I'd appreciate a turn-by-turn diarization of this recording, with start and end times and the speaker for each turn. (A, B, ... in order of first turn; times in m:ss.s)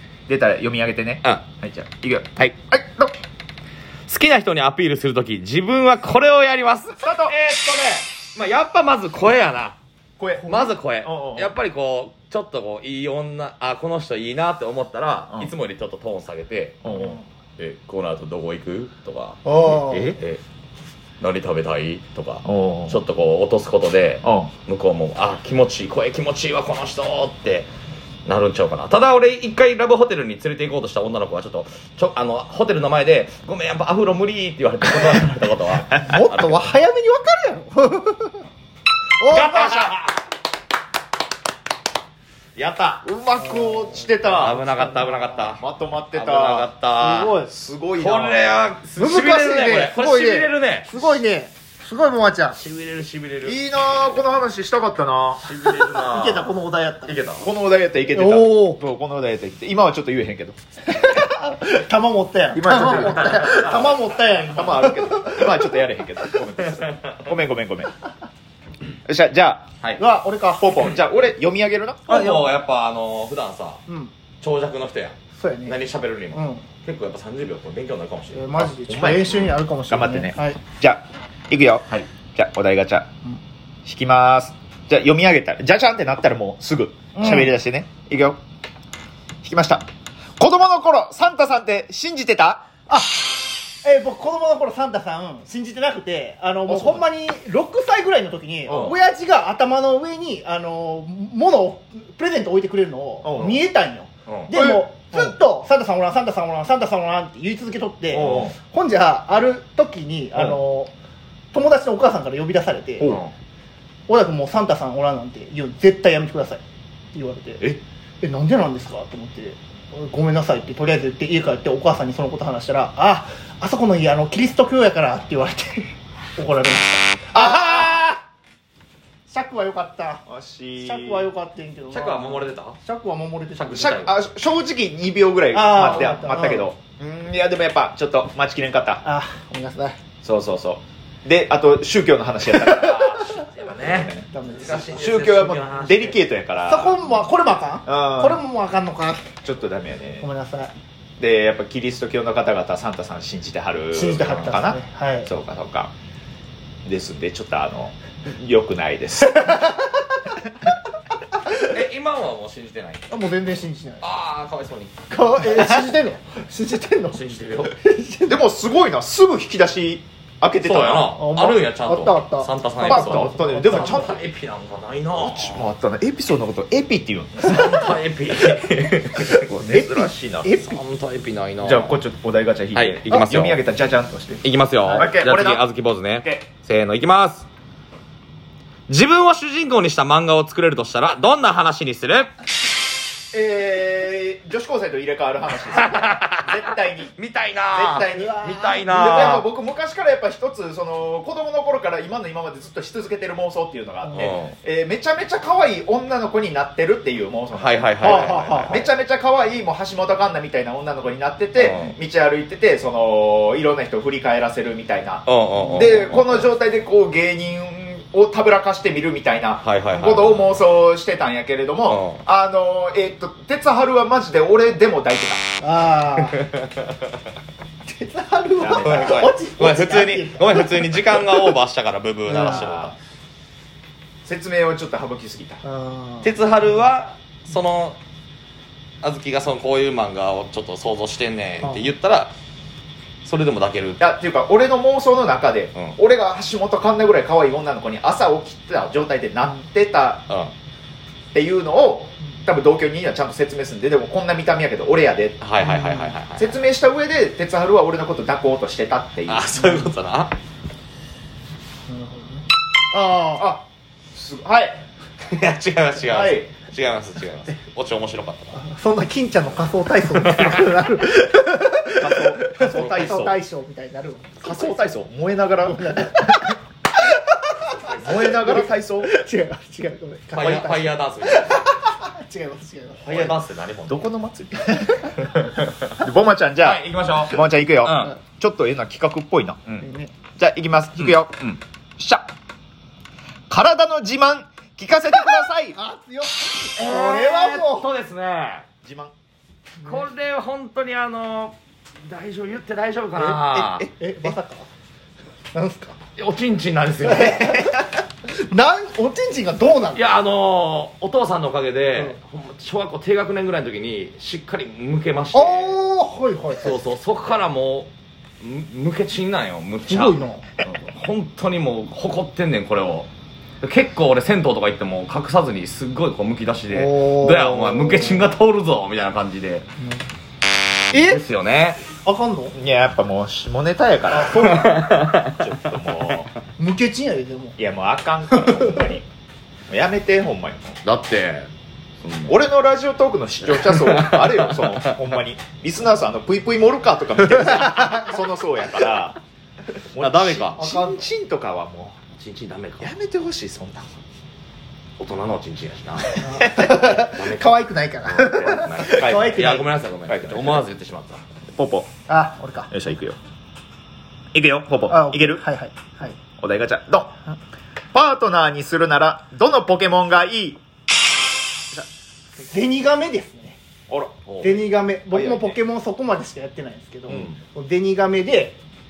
0:00.3-0:03.1 A
0:04.1-0:09.8 B
0:07.0-0:07.3 A
0:10.2-0:11.5 A
0:10.4-0:16.8 B
0:16.8-0:17.2 A
0:16.9-0:17.2 C
0:17.6-0:20.4 B
0:19.4-0:20.1 C
0:19.7-0:20.2 A
0:21.2-0:27.7 B
0:22.4-0:23.0 A
0:24.2-0:24.5 A
0:28.2-0:36.7 B
0:35.9-0:36.2 A
0:36.0-0:38.4 C
0:39.2-0:39.9 C
0:39.2-0:40.2 B
0:42.6-0:43.0 B
0:43.0-0:44.6 A
0:43.4-0:44.1 C
0:44.2-0:45.6 B
0:44.6-0:45.3 C
0:45.6-0:46.7 A
0:46.1-0:47.4 B
0:47.0-0:47.5 C
0:47.5-0:48.6 A
0:48.0-0:51.1 B
0:49.0-0:52.6 C
0:52.5-0:53.6 B
0:53.4-0:55.4 A
0:55.4-0:57.5 B
0:56.0-0:57.2 C
0:57.4-1:00.6 A
0:58.1-0:58.8 C
1:00.9-1:05.5 C
1:02.5-1:03.9 A
1:02.9-1:04.0 B
1:04.5-1:07.9 A
1:06.6-1:07.4 B
1:09.0-1:09.7 A
1:10.0-1:10.7 C
1:10.6-1:12.0 A
1:12.0-1:13.8 B
1:12.1-1:12.5 C
1:14.4-1:18.6 B
1:15.4-1:16.6 C
1:18.3-1:20.6 C
1:18.6-1:23.1 A
1:23.8-1:28.4 A
1:27.1-1:27.5 C
1:29.4-1:29.8 A
1:30.4-1:32.6 A
1:32.9-1:50.9 C
1:36.6-1:37.0 A
1:38.7-1:39.0 A
1:38.7-1:39.0 B
1:43.2-1:43.6 A
1:44.3-1:44.5 B
1:44.5-1:45.4 A
1:48.1-1:48.6 A
1:50.3-1:50.6 A
1:51.5-1:53.1 C
1:53.0-1:53.3 B
1:54.1-1:56.6 C
1:57.1-1:57.6 C
1:58.2-2:08.0 C
2:07.3-2:08.2 A
2:09.3-2:10.2 C
2:10.3-2:11.3 A
2:10.8-2:13.9 C
2:11.9-2:12.8 B
2:13.5-2:14.2 B
2:13.7-2:19.0 A
2:15.5-2:16.7 C
2:19.0-2:20.0 C
2:20.2-2:27.3 A
2:22.6-2:26.2 B
2:24.3-2:24.9 C
2:26.7-2:29.3 C
2:27.8-2:28.4 A
2:29.4-2:30.3 A
2:30.2-2:30.7 C
2:31.2-2:35.9 A
2:33.9-2:35.3 C
2:36.8-2:39.7 A
2:39.3-2:39.9 C
2:41.6-2:43.0 B
2:43.1-2:44.0 C
2:44.0-2:45.8 B
2:45.1-2:48.4 C
2:47.1-2:47.7 B
2:48.2-2:51.1 A
2:50.6-2:55.7 B
2:51.1-2:54.1 C
2:52.8-2:54.1 A
2:55.1-2:57.9 A
2:57.4-2:59.6 B
2:59.5-3:00.5 A
2:59.7-3:00.8 C
3:00.6-3:02.0 B
3:01.6-3:05.6 A
3:02.7-3:03.6 B
3:04.4-3:07.4 B
3:08.9-3:12.3 B
3:13.3-3:17.1 A
3:15.7-3:19.4 B
3:17.7-3:45.4 A
3:18.1-3:18.9 C
3:24.0-3:24.4 C
3:24.1-3:24.5 B
3:27.5-3:28.8 B
3:28.0-3:28.9 C
3:31.6-3:32.0 B
3:35.2-3:36.5 B
3:39.6-3:40.6 B
3:41.8-3:42.2 B
3:45.6-3:46.4 C
3:46.2-3:46.9 B
3:47.8-3:51.5 C
3:48.6-3:49.3 A
3:48.7-3:52.9 B
3:52.2-3:52.7 C
3:52.4-3:52.9 A
3:54.2-3:55.6 A
3:55.6-3:56.3 C
3:56.2-3:58.0 B
3:59.0-4:02.3 B
4:01.6-4:01.9 C
4:03.2-4:04.0 B
4:04.0-4:10.2 A
4:11.3-4:15.4 A
4:15.4-4:16.5 B
4:15.6-4:16.1 C
4:16.4-4:19.5 A
4:19.3-4:20.3 B
4:19.6-4:19.9 C
4:21.9-4:23.4 C
4:23.4-4:24.8 A
4:25.3-4:28.6 B
4:26.0-4:26.5 A
4:28.5-4:34.8 C
4:30.1-4:30.8 B
4:31.9-4:33.3 A
4:32.6-4:33.4 B
4:34.4-4:36.4 A
4:35.6-4:36.6 C
4:37.7-4:43.3 C
4:38.0-4:39.1 A
4:40.3-4:41.7 B
4:43.0-4:44.1 B
4:43.9-4:45.2 A
4:45.3-4:45.9 B
4:46.0-4:49.6 A
4:46.6-4:48.1 B
4:49.8-4:50.1 C
4:50.4-4:51.4 A
4:51.0-4:51.6 B
4:52.0-4:52.3 A
4:53.5-4:55.8 A
4:55.7-4:57.9 C
4:56.7-4:58.6 B
4:58.8-4:59.1 A
4:59.8-5:03.8 B
4:59.8-5:00.1 C
5:03.1-5:04.4 A
5:04.0-5:04.7 C
5:05.5-5:06.0 C
5:06.2-5:07.5 B
5:07.0-5:07.7 C
5:07.1-5:07.8 A
5:08.4-5:10.0 C
5:09.9-5:15.8 B
5:15.3-5:16.8 C
5:16.5-5:17.9 B
5:18.4-5:23.1 B
5:19.9-5:20.4 C
5:23.6-5:29.7 B
5:26.7-5:28.3 C
5:29.8-5:30.0 C
5:30.9-5:31.8 B
5:30.9-5:31.2 C
5:32.0-5:32.5 C
5:32.5-5:34.5 A
5:34.1-5:34.8 C
5:34.3-5:35.7 B
5:35.2-5:36.3 A
5:36.6-5:37.6 C
5:37.6-5:39.0 A
5:38.4-5:38.9 C
5:39.7-5:40.8 A
5:40.8-5:41.5 B
5:42.0-5:42.4 B
5:42.3-5:49.2 A
5:43.5-5:45.0 B
5:47.5-5:48.2 C
5:49.9-5:52.0 A
5:50.0-5:50.6 B
5:50.6-5:51.0 C
5:52.1-5:52.9 B
5:52.8-5:53.9 A
5:55.0-6:01.2 B
5:56.2-5:59.7 C
5:56.4-5:56.7 A
5:58.8-6:00.6 A
6:01.6-6:01.9 A
6:02.1-6:02.7 C
6:02.7-6:03.2 A
6:04.3-6:05.4 A
6:04.9-6:06.2 C
6:06.4-6:07.1 A
6:07.9-6:10.6 A
6:12.5-6:13.6 C
6:13.9-6:14.2 A
6:14.2-6:14.6 B
6:14.4-6:18.6 C
6:15.1-6:15.6 A
6:17.1-6:17.4 B
6:17.1-6:17.3 A